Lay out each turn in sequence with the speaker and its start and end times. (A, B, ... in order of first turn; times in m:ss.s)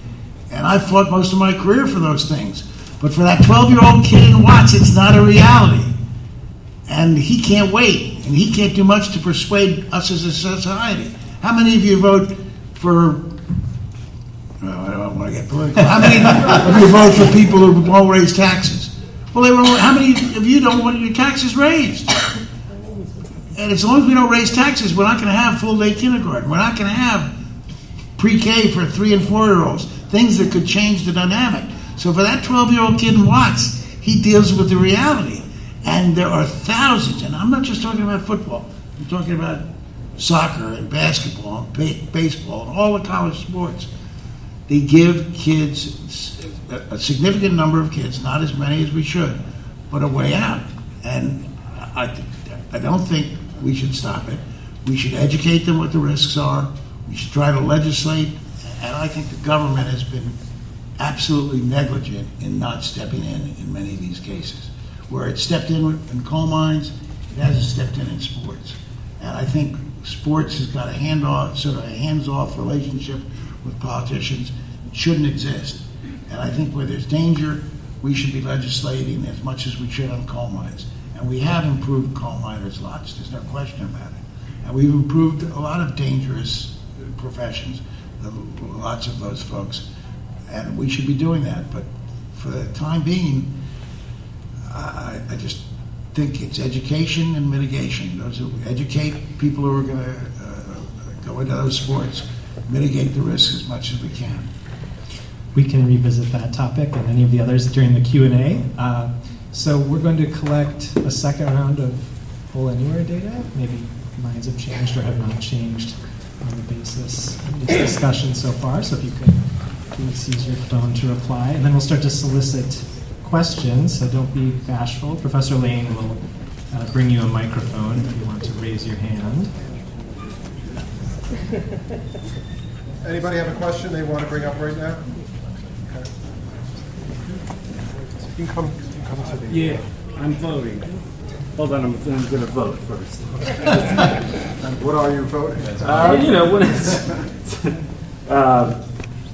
0:00.5-0:05.9 A
0:06.9-0:13.3 A
0:14.6-0:22.2 A
0:23.5-0:27.3 A
0:28.2-0:39.6 A
0:40.2-0:43.9 A
0:44.7-0:49.4 A
0:49.9-1:00.4 A
1:01.0-1:29.8 A
1:30.5-1:33.5 A
1:34.6-1:44.5 A
1:45.6-2:09.5 B
2:13.0-2:15.0 C
2:18.3-2:19.8 C
2:19.5-2:20.8 D
2:21.6-2:23.2 D
2:24.6-2:26.1 C
2:25.8-2:27.0 D
2:28.3-2:28.8 D